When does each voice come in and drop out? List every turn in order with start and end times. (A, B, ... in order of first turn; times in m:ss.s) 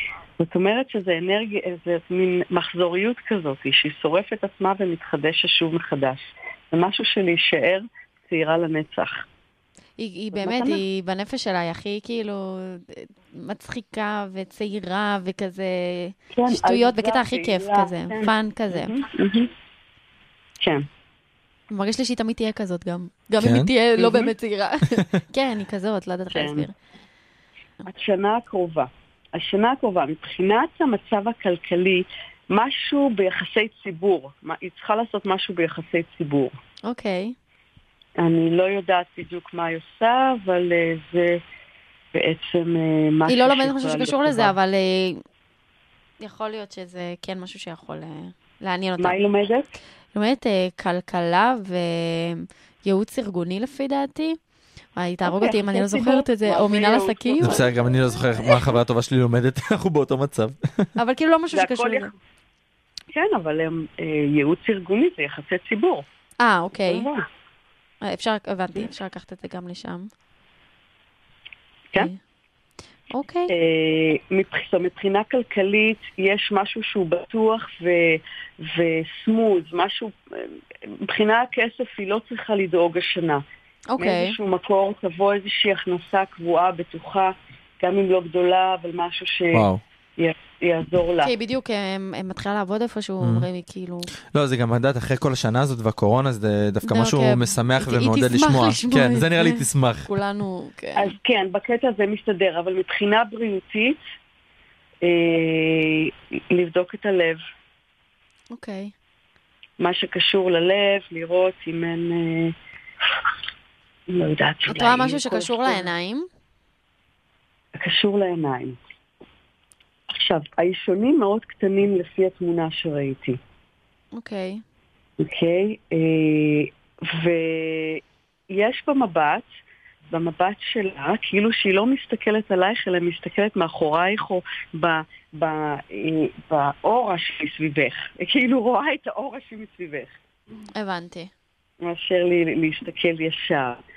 0:00.4-0:09.2 A
0:10.0-0:19.0 B
0:10.3-0:10.8 A
0:16.3-0:19.5 A
0:20.6-0:20.8 A
0:21.7-0:26.7 B
0:23.4-0:23.7 C
0:24.0-0:24.3 A
0:26.3-0:26.7 A
0:27.9-0:36.5 A
0:36.9-0:37.3 B
0:38.2-0:41.4 A
0:42.1-0:44.5 A
0:43.3-0:45.2 B
0:46.2-0:49.2 B
0:49.0-0:49.7 A
0:50.1-0:54.4 B
0:55.0-0:57.6 B
0:55.2-0:57.9 A
0:57.4-1:00.9 C
1:01.0-1:02.1 B
1:01.5-1:02.1 A
1:03.1-1:06.0 A
1:06.4-1:07.1 B
1:06.8-1:07.2 A
1:08.0-1:10.1 B
1:13.1-1:13.5 B
1:13.5-1:20.5 A
1:21.0-1:23.4 A
1:23.9-1:24.4 B
1:24.0-1:29.7 A
1:29.5-1:29.8 C
1:30.2-1:31.3 A
1:31.2-1:34.1 B
1:33.2-1:33.5 C
1:34.3-1:40.1 C
1:36.8-1:41.2 B
1:40.9-1:44.0 A
1:45.0-1:47.4 A
1:48.5-1:48.9 B
1:49.8-1:52.5 A
1:54.1-1:55.9 A
1:54.7-1:56.3 B
1:57.8-1:58.8 A
2:00.1-2:03.4 A
2:04.1-2:04.6 B
2:05.2-2:09.5 A
2:10.1-2:20.1 A
2:20.7-2:21.3 B
2:21.8-2:23.8 A